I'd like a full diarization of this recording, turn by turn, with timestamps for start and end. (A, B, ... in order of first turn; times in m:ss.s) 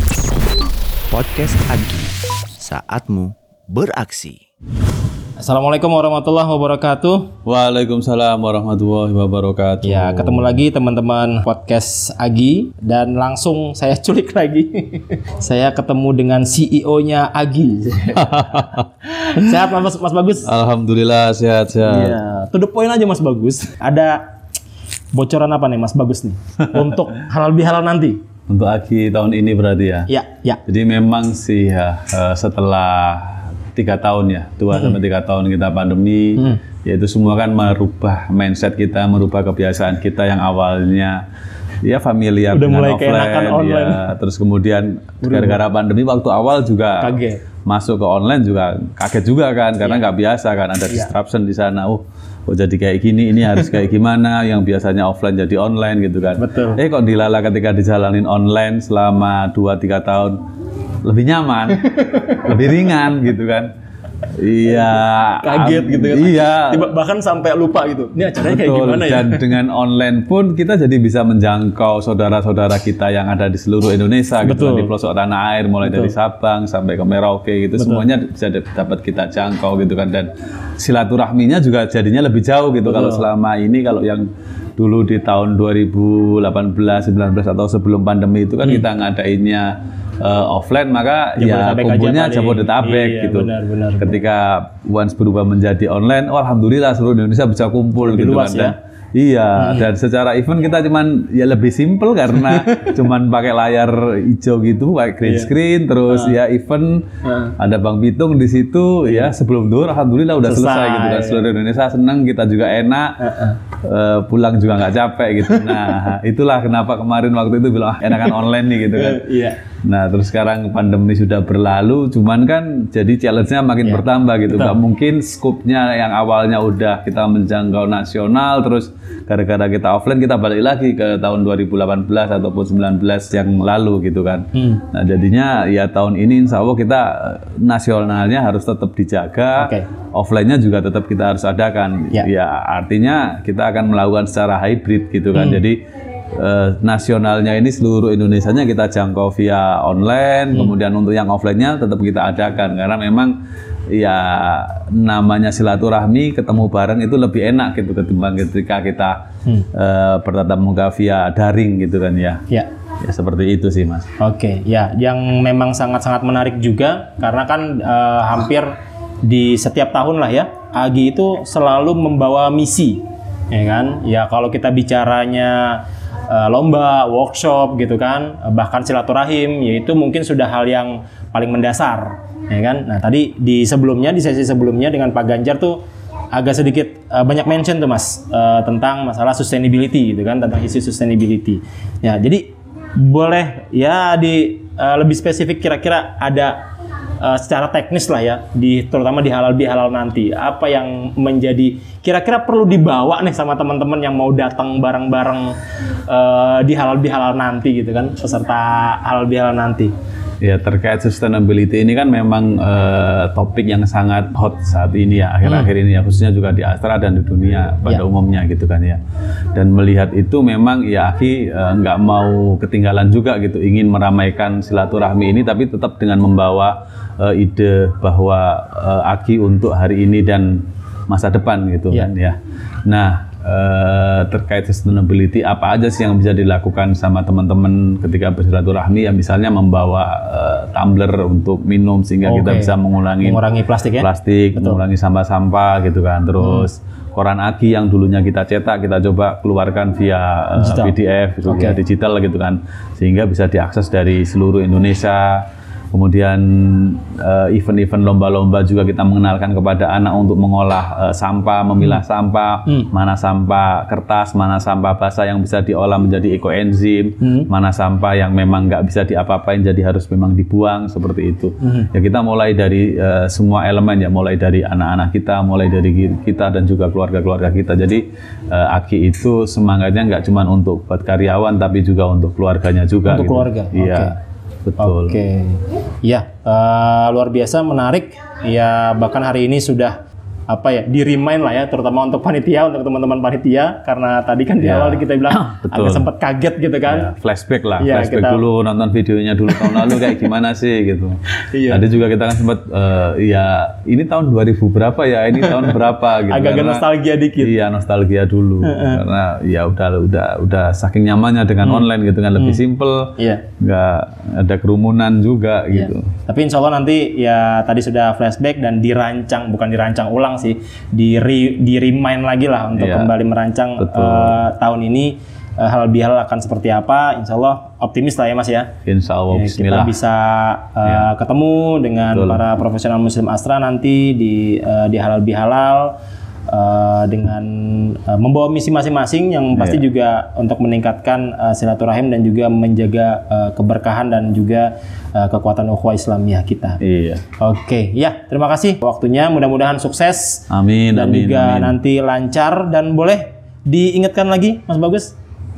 0:01.1-0:04.4 A
0:05.4-0:07.3 B
0:07.4-0:10.6 C
0:09.8-0:20.5 B
0:18.2-0:18.9 C
0:20.4-0:22.2 C
0:21.8-0:24.2 B
0:25.1-0:28.2 B
0:28.5-0:30.1 C
0:30.1-0:30.6 B
0:30.7-0:41.2 C
0:41.8-0:47.1 C
0:42.5-0:44.0 B
0:45.2-0:45.6 B
0:47.0-0:47.4 B
0:47.7-1:00.4 C
0:56.4-0:56.8 B
1:01.0-1:03.7 C
1:01.9-1:02.6 B
1:04.3-1:06.9 C
1:04.7-1:09.5 B
1:08.4-1:53.2 C
1:14.4-1:14.9 B
1:15.8-1:16.1 B
1:17.8-1:18.1 B
1:22.9-1:23.3 B
1:31.4-1:34.2 B
1:38.0-1:38.8 B
1:39.6-1:39.9 B
1:42.5-1:43.0 B
1:45.2-1:45.5 B
1:46.1-1:46.4 B
1:47.2-1:47.5 B
1:50.4-1:51.4 B
1:53.2-1:53.6 B
1:53.8-1:59.2 C
1:55.6-1:56.0 B
1:58.9-1:59.6 B
1:59.8-2:25.8 C
2:03.8-2:04.8 B
2:14.6-2:14.8 B
2:19.6-2:19.8 B
2:25.4-2:25.6 B
2:26.4-2:33.4 C
2:33.9-2:39.2 C
2:39.7-2:42.4 C
2:43.0-2:44.1 C
2:44.2-2:48.7 B
2:49.2-3:05.8 B
3:06.3-3:12.5 B
3:13.0-3:16.6 B
3:17.2-3:25.6 B
3:26.1-3:29.9 B
3:30.4-3:39.0 C
3:39.6-4:03.4 C
4:02.2-4:04.8 B
4:04.0-4:44.1 C
4:06.4-4:06.7 B
4:10.6-4:10.9 B
4:11.4-4:11.8 B
4:31.6-4:31.9 B
4:43.1-4:44.1 B
4:44.7-4:45.2 C
4:44.8-4:50.0 B
4:50.5-4:57.1 B
4:54.6-4:56.1 C
4:56.9-5:01.2 C
4:57.8-4:58.4 B
4:59.6-5:00.1 B
5:01.5-5:01.8 B
5:01.7-5:06.8 C
5:05.4-5:07.5 B
5:07.4-5:16.1 C
5:08.6-5:09.0 B
5:11.6-5:12.6 B
5:13.2-5:13.4 B
5:15.7-5:28.7 B
5:22.8-5:23.1 C
5:23.8-5:24.4 C
5:28.9-5:29.9 C
5:29.3-5:36.0 B
5:32.1-5:32.4 C
5:36.5-5:46.8 B
5:39.5-5:39.8 C
5:46.8-5:47.2 C
5:47.4-5:55.1 B
5:50.5-5:51.8 C